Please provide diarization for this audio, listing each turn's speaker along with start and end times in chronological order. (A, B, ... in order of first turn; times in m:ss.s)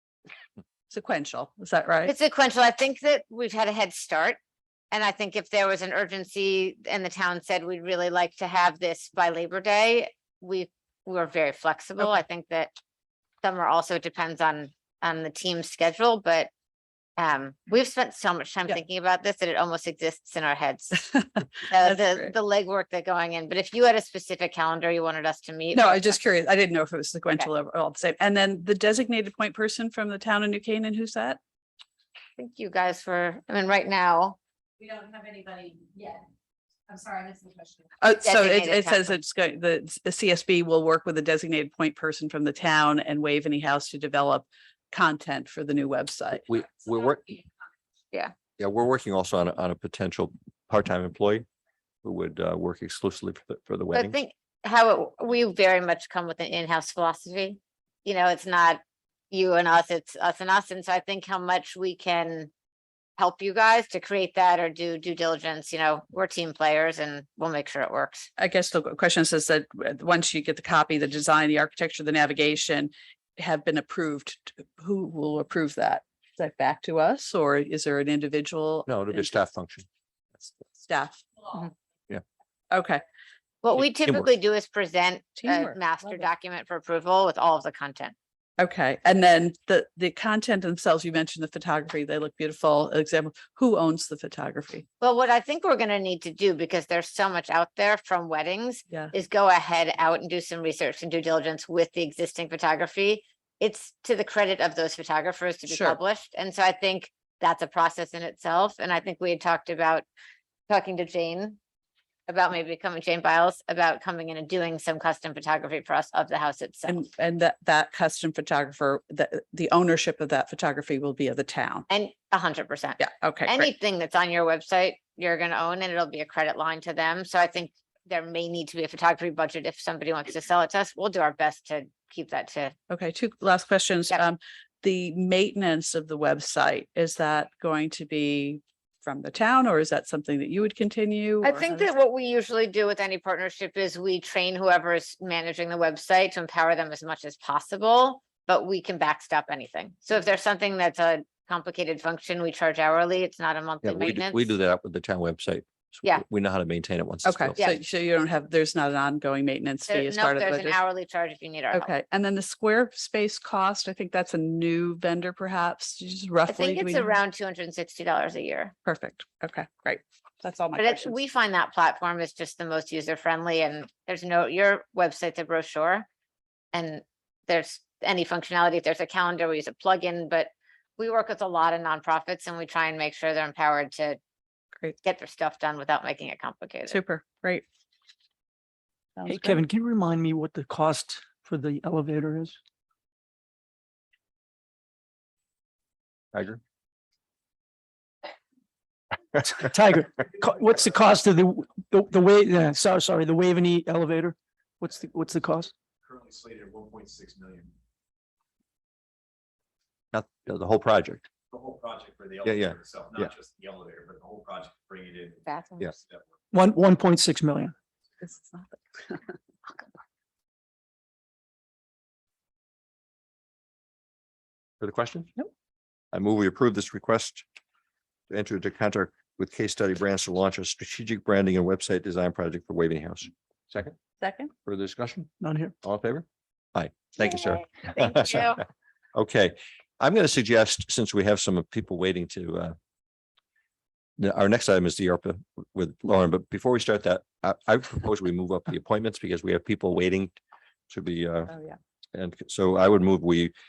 0:00.9-0:02.1 A
0:02.0-0:04.4 B
0:04.9-0:12.7 B
0:13.4-0:16.5 B
0:17.2-0:21.1 B
0:21.6-0:26.2 B
0:21.8-0:22.3 A
0:25.7-0:31.4 A
0:32.4-0:34.4 B
0:34.8-0:36.2 C
0:36.9-0:38.0 C
0:38.0-0:46.4 A
0:38.1-0:39.1 B
0:46.4-0:47.3 D
0:48.6-0:51.4 D
0:52.0-0:54.2 D
0:53.9-1:02.5 B
1:03.2-1:08.3 B
1:08.4-1:19.3 A
1:18.9-1:19.9 D
1:20.7-1:21.2 A
1:22.7-1:23.0 A
1:23.6-1:28.1 B
1:23.9-1:24.3 D
1:25.4-1:26.2 A
1:28.6-1:34.8 A
1:35.0-1:50.0 B
1:45.7-1:46.0 A
1:50.7-1:51.6 B
1:52.3-1:57.0 B
1:56.8-2:01.8 A
2:01.9-2:12.7 B
2:03.0-2:03.7 A
2:12.9-2:21.9 A
2:21.4-2:34.5 B
2:33.8-2:37.6 D
2:37.2-2:40.8 A
2:39.9-2:41.9 B
2:41.7-2:47.1 A
2:46.5-2:48.7 B
2:48.8-2:51.1 A
2:50.8-2:56.0 B
2:56.7-3:04.2 B
3:05.0-3:07.0 B
3:06.9-3:07.6 A
3:09.2-3:09.6 A
3:09.2-3:12.6 E
3:16.3-3:16.6 D
3:19.4-3:25.7 E
3:26.0-3:27.7 F
3:30.1-3:31.2 D
3:31.5-3:35.4 F
3:32.4-3:33.3 D
3:35.4-3:36.0 B
3:36.5-3:37.7 E
3:38.2-3:39.2 A
3:44.8-3:45.3 D
3:46.1-3:47.4 D
3:48.3-3:53.9 D
3:54.2-3:54.5 A
3:54.7-3:55.3 D
3:55.4-3:55.7 E
3:55.8-3:56.2 D
3:56.7-3:58.5 D
3:57.2-3:58.6 B
3:59.1-4:02.7 D
4:04.2-4:10.3 D
4:10.9-4:11.5 D
4:11.5-4:11.8 A
4:12.1-4:13.5 D